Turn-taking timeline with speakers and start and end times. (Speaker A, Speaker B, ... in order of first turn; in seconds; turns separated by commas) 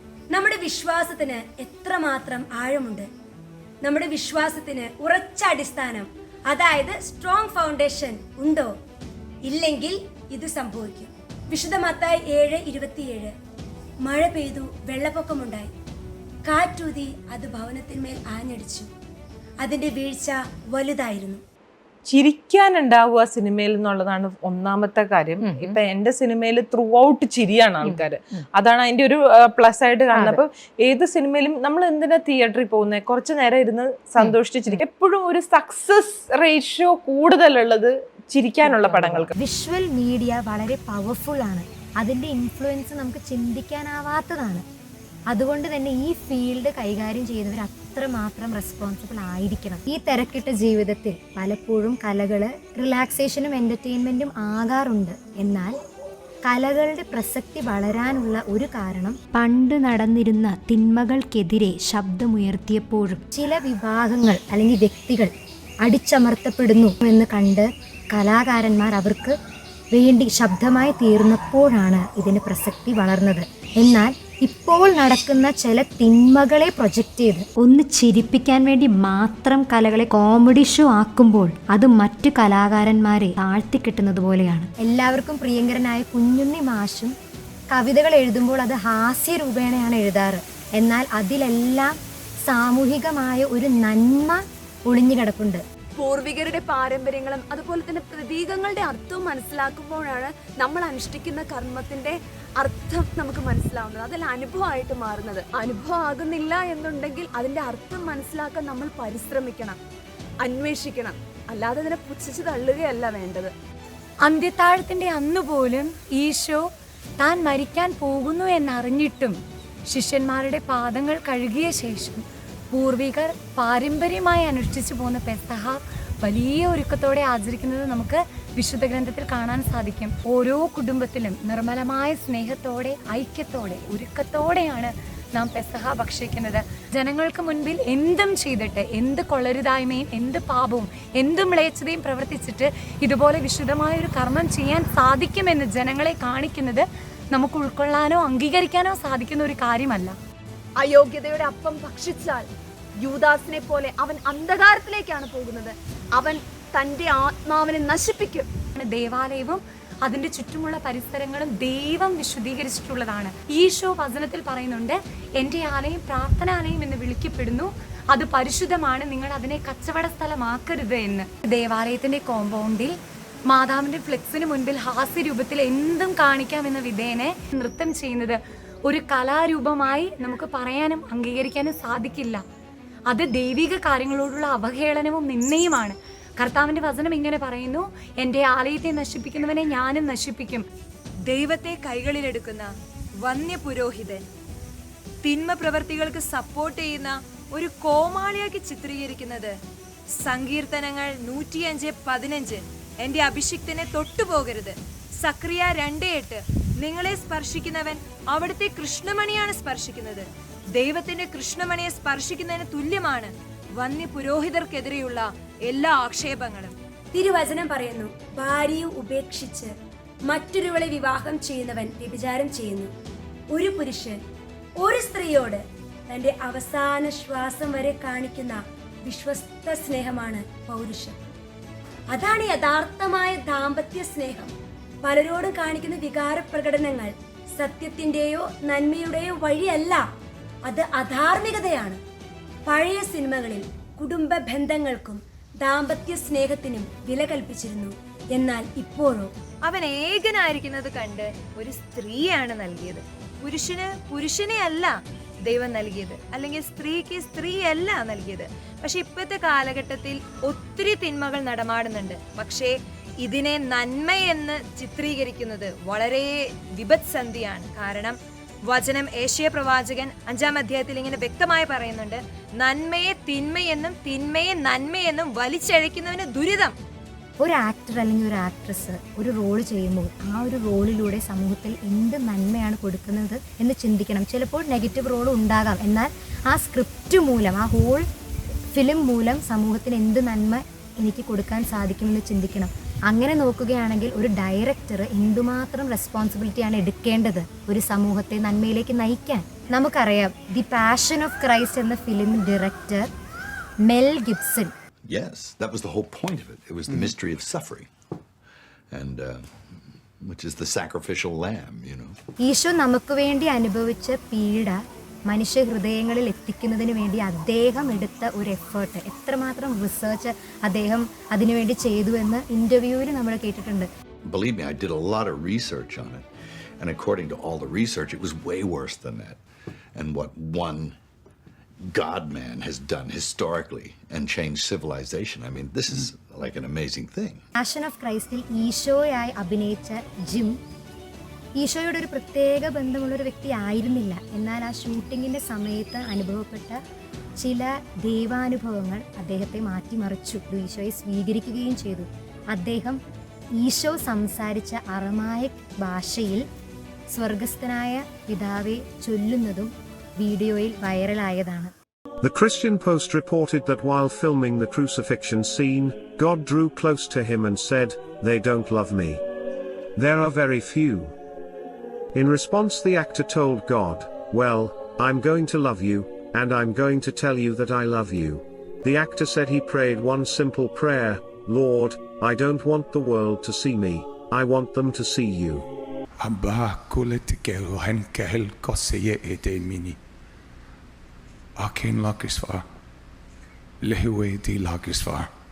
Speaker A: 0.3-3.1, Speaker A: 3.8-8.7, Speaker A: 9.4-13.3, Speaker A: 14.0-15.7, Speaker A: 16.4-18.9, Speaker A: 19.6-21.4, Speaker B: 22.1-39.3, Speaker C: 39.4-44.6, Speaker C: 45.3-55.8, Speaker C: 56.5-65.3, Speaker C: 65.8-69.3, Speaker C: 69.9-87.1, Speaker C: 87.7-91.9, Speaker C: 92.5-95.6, Speaker D: 96.0-109.8, Speaker D: 110.4-113.5, Speaker E: 114.2-116.6, Speaker E: 117.2-119.4, Speaker E: 119.9-150.2, Speaker D: 150.8-152.5, Speaker D: 153.0-158.5, Speaker E: 158.8-172.9, Speaker E: 173.5-182.4, Speaker E: 183.1-190.6, Speaker F: 191.3-192.7, Speaker F: 193.2-194.2, Speaker F: 195.2-199.5, Speaker F: 200.2-216.7, Speaker A: 217.1-219.7, Speaker A: 220.3-222.9, Speaker A: 223.5-224.2, Speaker A: 224.8-231.2, Speaker A: 232.1-234.5, Speaker A: 235.0-240.0, Speaker A: 240.7-242.0, Speaker A: 242.7-249.3, Speaker F: 249.6-254.9, Speaker F: 255.4-268.1, Speaker F: 268.7-276.7, Speaker C: 277.4-288.0, Speaker C: 288.7-303.1, Speaker C: 303.9-304.7, Speaker G: 305.1-307.9, Speaker G: 308.9-309.5, Speaker G: 310.2-312.2, Speaker C: 312.4-314.8, Speaker C: 315.3-323.9, Speaker G: 324.2-326.2, Speaker G: 326.8-329.4, Speaker G: 329.9-330.9, Speaker G: 331.9-337.4, Speaker C: 337.6-340.6, Speaker C: 341.6-346.8, Speaker C: 347.4-353.0, Speaker C: 353.6-356.4, Speaker C: 357.1-361.7, Speaker H: 362.2-369.2, Speaker H: 370.0-371.1, Speaker H: 372.1-385.6, Speaker I: 386.2-390.0, Speaker I: 391.6-392.6, Speaker I: 393.8-395.3